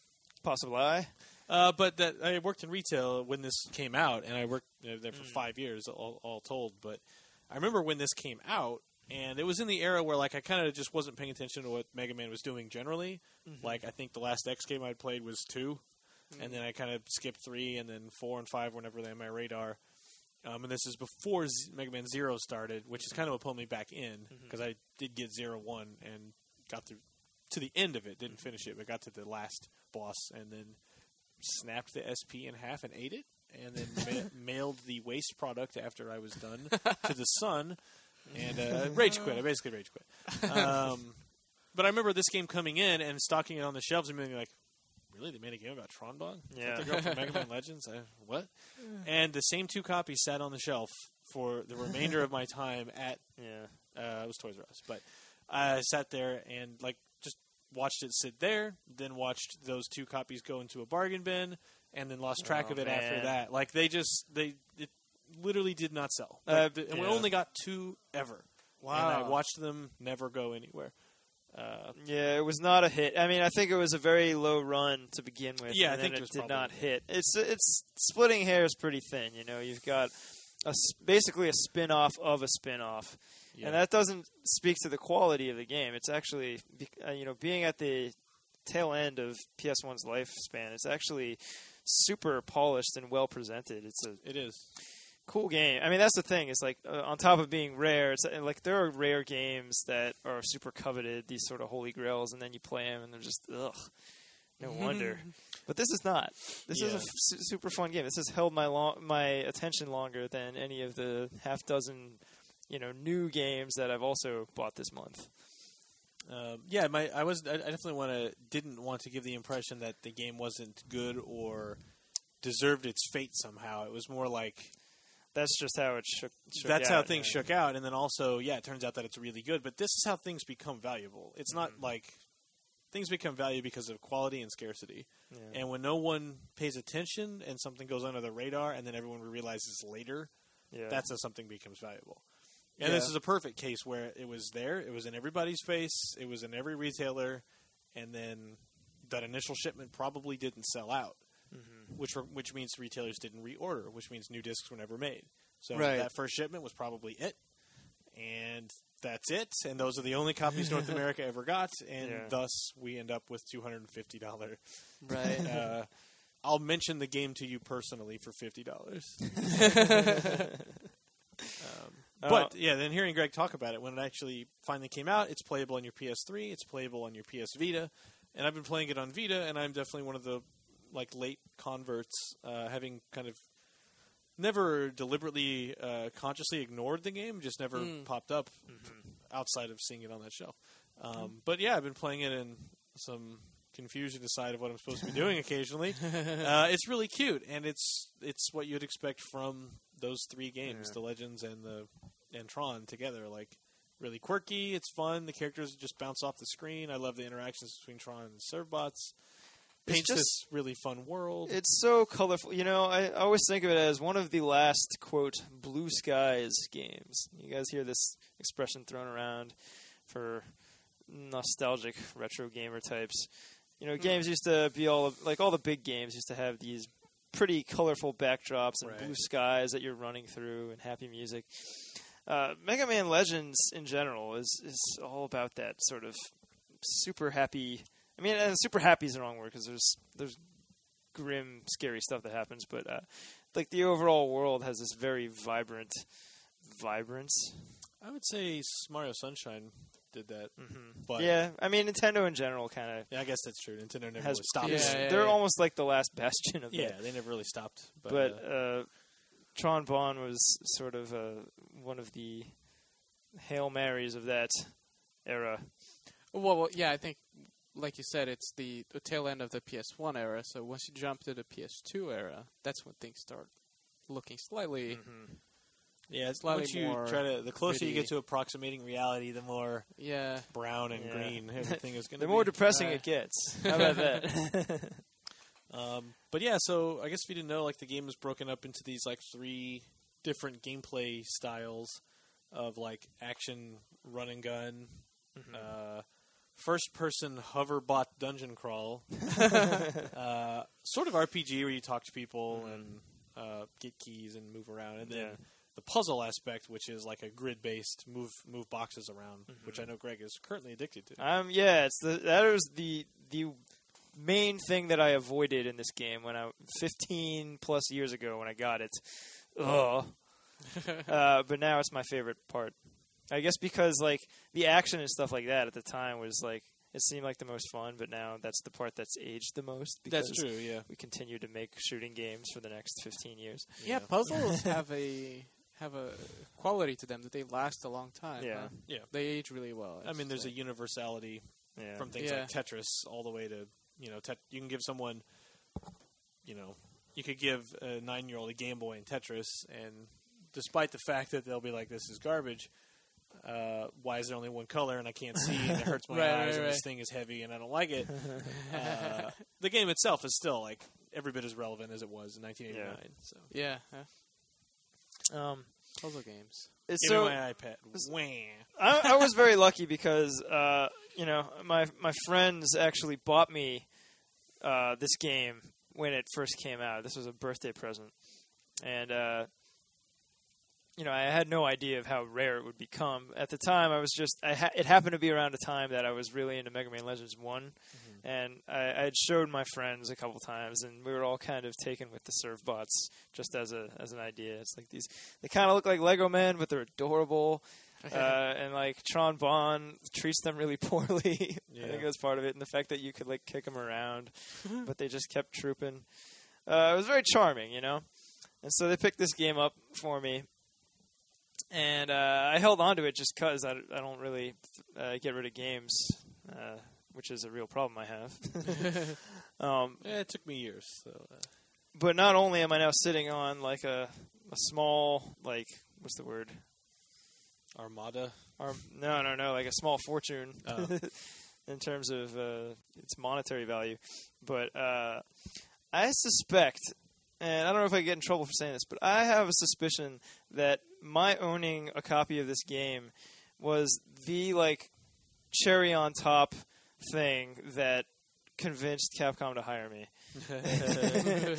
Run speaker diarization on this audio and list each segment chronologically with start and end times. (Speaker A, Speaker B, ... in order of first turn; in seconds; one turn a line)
Speaker A: 0.4-1.2
Speaker B: 1.5-72.0
Speaker A: 5.1-5.5
Speaker A: 13.4-13.9
Speaker C: 16.3-16.6
Speaker A: 23.0-23.5
Speaker A: 24.3-24.6
Speaker C: 39.2-39.9
Speaker A: 46.5-47.0
Speaker A: 53.4-53.8
Speaker A: 62.4-63.4
Speaker A: 66.5-67.3
Speaker C: 68.8-69.4
Speaker A: 72.0-115.4
Speaker B: 75.7-77.0
Speaker B: 83.5-83.8
Speaker B: 94.2-94.7
Speaker C: 104.6-105.3
Speaker B: 106.7-107.1
Speaker B: 116.3-124.8
Speaker A: 125.3-127.5
Speaker B: 126.6-170.0
Speaker A: 131.5-131.9
Speaker A: 135.3-135.6
Speaker A: 140.7-141.1
Speaker C: 142.8-143.1
Speaker A: 151.5-152.0
Speaker C: 155.7-156.1
Speaker A: 162.0-162.4
Speaker C: 165.0-165.5
Speaker B: 171.6-211.6
Speaker A: 172.2-172.6
Speaker C: 187.7-188.2
Speaker A: 188.7-189.2
Speaker A: 200.7-201.0
Speaker A: 209.8-210.9
Speaker A: 211.5-247.7
Speaker B: 228.8-229.2
Speaker B: 248.0-251.4
Speaker A: 250.6-265.8
Speaker B: 253.1-255.3
Speaker C: 254.6-255.4
Speaker B: 256.7-258.5
Speaker C: 266.3-275.5
Speaker A: 274.9-275.4
Speaker B: 276.1-282.7
Speaker C: 276.4-278.1
Speaker C: 279.9-280.6
Speaker A: 280.9-284.9
Speaker C: 282.7-283.6
Speaker B: 285.7-311.2
Speaker A: 295.3-295.7
Speaker A: 302.5-303.0
Speaker A: 305.0-305.4
Speaker A: 309.5-309.9
Speaker A: 311.2-334.4
Speaker B: 330.1-330.9
Speaker B: 333.8-334.1
Speaker C: 333.8-340.6
Speaker A: 338.4-338.9
Speaker B: 338.9-363.5
Speaker A: 341.8-342.1
Speaker C: 342.1-342.5
Speaker C: 356.1-356.9
Speaker A: 362.7-363.0
Speaker C: 363.5-364.1
Speaker A: 365.3-366.1
Speaker C: 366.0-366.8
Speaker A: 366.9-379.6
Speaker B: 367.0-368.9
Speaker A: 380.9-410.9
Speaker B: 387.9-388.2
Speaker C: 398.0-398.4
Speaker B: 401.7-402.1
Speaker A: 411.7-420.2
Speaker B: 420.0-421.6
Speaker A: 421.9-426.7
Speaker B: 427.7-428.7
Speaker A: 428.6-451.2
Speaker B: 430.6-431.0
Speaker B: 450.3-451.2